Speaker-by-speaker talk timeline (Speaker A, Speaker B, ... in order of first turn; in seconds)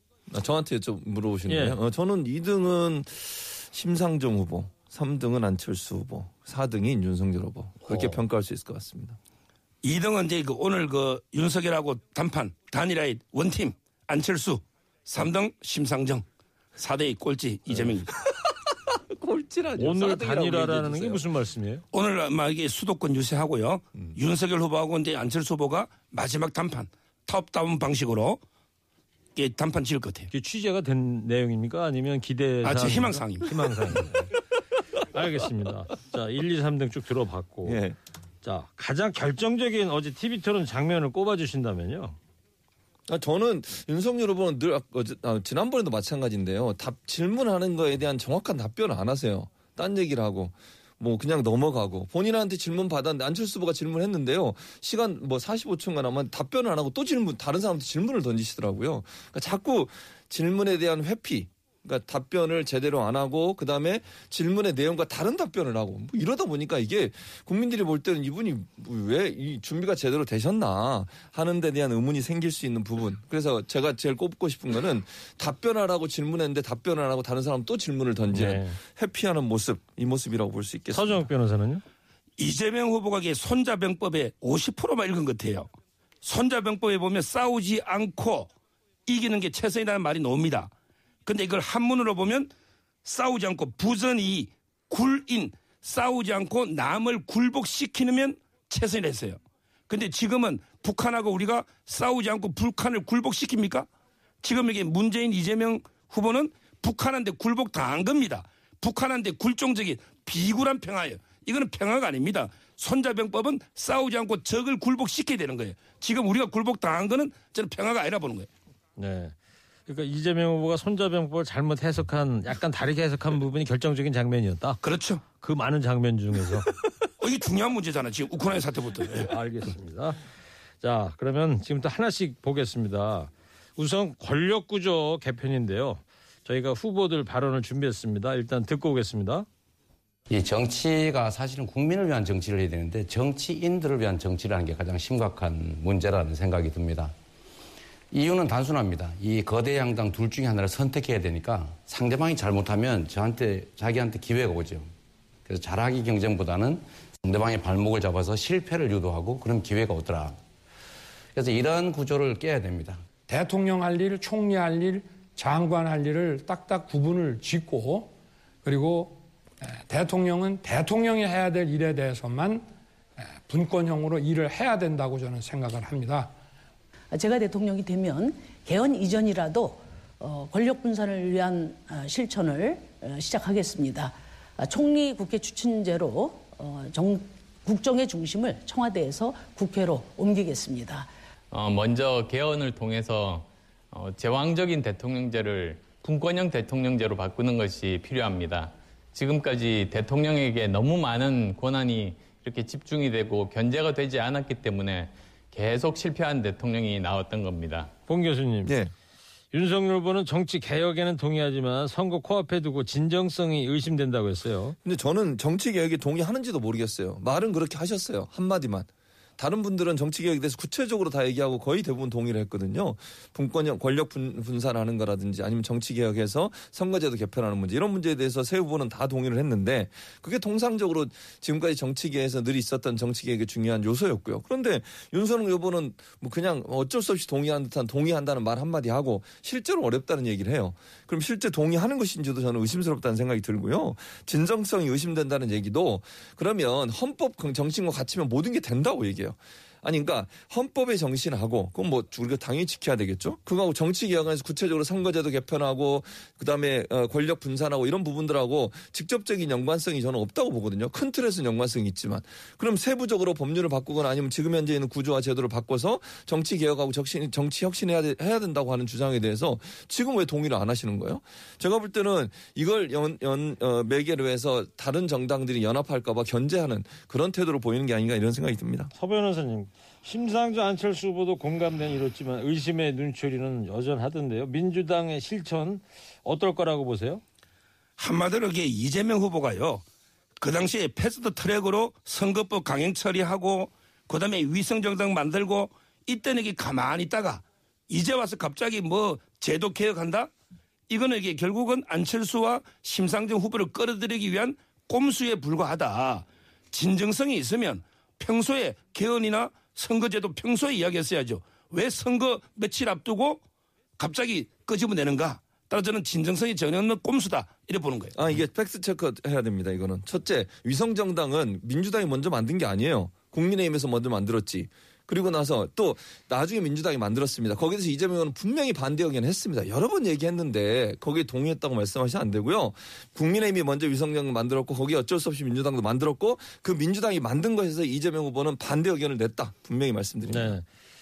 Speaker A: 0.3-9.2, 18.5-21.2, 37.6-38.0, 43.1-81.3, 208.7-208.9, 214.8-278.9, 318.1-340.6
Speaker B: 1.5-1.8, 19.8-21.8, 30.3-34.3, 35.1-37.8, 38.4-42.2, 78.3-78.8, 80.9-81.8, 119.0-119.3, 119.9-124.8, 125.4-126.7, 129.3-130.2, 130.8-139.5, 208.1-208.7, 209.5-214.8, 278.9-287.2, 340.3-340.6
Speaker C: 9.8-16.2, 16.8-18.1, 21.9-28.4, 29.4-30.3, 32.6-33.6, 82.4-85.7, 86.2-88.5, 89.1-90.7, 91.3-92.5, 93.0-103.9, 104.4-118.5, 124.8-125.2, 127.2-129.3, 288.0-289.9, 290.4-300.3, 300.9-313.4, 314.0-318.1
Speaker D: 140.3-147.1, 148.1-154.9, 155.5-160.4, 161.3-163.0
Speaker E: 163.3-172.7, 173.4-176.3
Speaker F: 177.1-191.1
Speaker G: 191.5-207.9